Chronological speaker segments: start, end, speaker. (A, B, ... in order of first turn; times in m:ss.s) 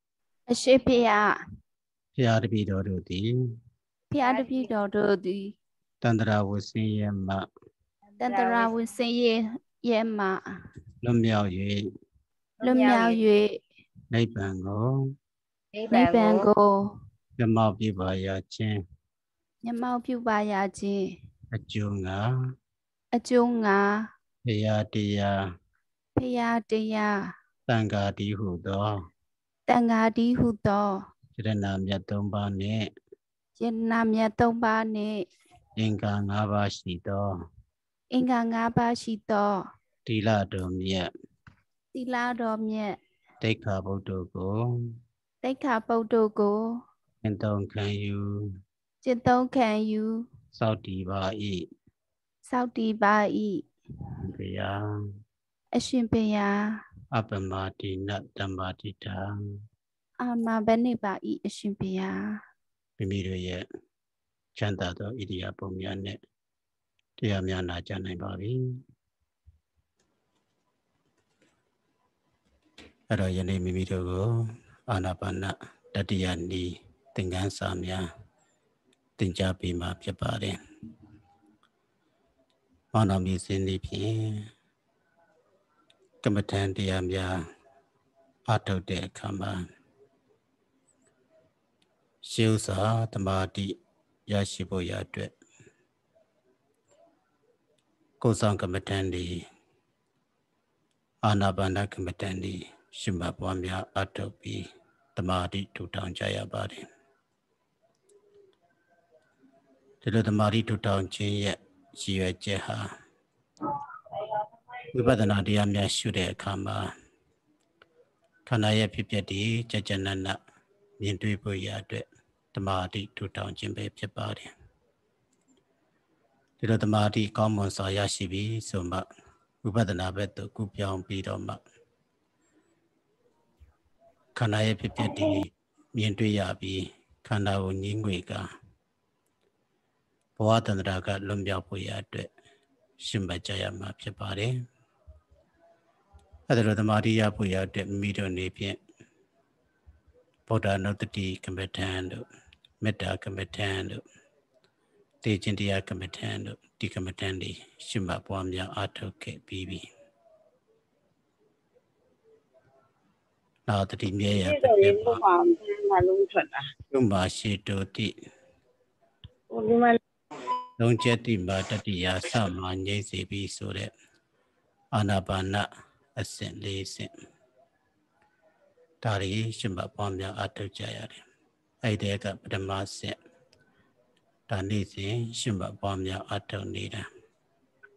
0:00.5-0:01.3 A
0:02.2-0:03.3 B
0:04.1-0:05.5 A
0:04.2-0:04.7 C
0:06.0-0:07.4 B
0:08.2-0:08.7 C
0:08.2-0:10.4 A
0:11.0-0:11.8 B
0:12.6-0:13.6 A
0:12.6-0:13.2 C
0:14.1-0:15.0 B
0:15.7-0:16.5 C
0:15.9-0:17.0 A
0:17.4-0:18.8 B
0:19.6-0:21.0 A
0:21.5-0:22.2 B
0:23.1-0:24.0 A
0:24.4-0:25.4 B
0:26.2-0:27.1 A
0:27.7-0:28.9 B
0:29.7-0:30.9 A
0:31.4-0:32.9 B
0:33.6-0:35.2 A
0:35.8-0:37.3 B
0:38.1-0:39.5 A
0:40.0-0:41.1 B
0:41.9-0:43.0 A
0:43.4-0:44.6 B
0:45.4-0:46.8 A
0:47.2-0:48.5 B
0:49.0-0:50.2 A
0:50.6-0:51.7 B
0:52.5-0:53.6 A
0:54.2-0:54.8 B
0:55.7-0:56.8 A
0:57.1-0:59.3 B
1:00.2-1:02.2 A
1:03.0-1:03.6 B
1:04.6-1:06.2 B
1:07.2-1:08.6 B
1:13.1-1:18.0 B
1:19.2-1:20.6 B
1:22.9-1:24.5 B
1:26.2-1:27.4 B
1:28.5-1:29.6 B
1:32.2-1:33.8 B
1:34.3-1:35.3 B
1:38.2-1:39.4 B
1:41.2-1:46.8 B
1:50.0-1:52.8 B
1:54.9-1:56.9 B
1:58.5-2:00.4 B
2:01.0-2:04.5 B
2:06.6-2:09.0 B
2:09.6-2:11.6 B
2:14.4-2:18.4 B
2:20.4-2:22.3 B
2:23.0-2:24.5 B
2:26.5-2:28.8 B
2:30.5-2:32.2 B
2:32.8-2:34.0 B
2:35.2-2:39.9 B
2:43.7-2:45.2 B
2:44.3-2:46.6 C
2:46.9-2:48.1 B
2:49.5-2:50.0 C
2:50.8-2:53.9 B
2:54.9-2:55.6 B
2:56.2-2:57.1 B
2:59.0-3:01.2 B
3:01.8-3:03.1 B
3:04.5-3:07.0 B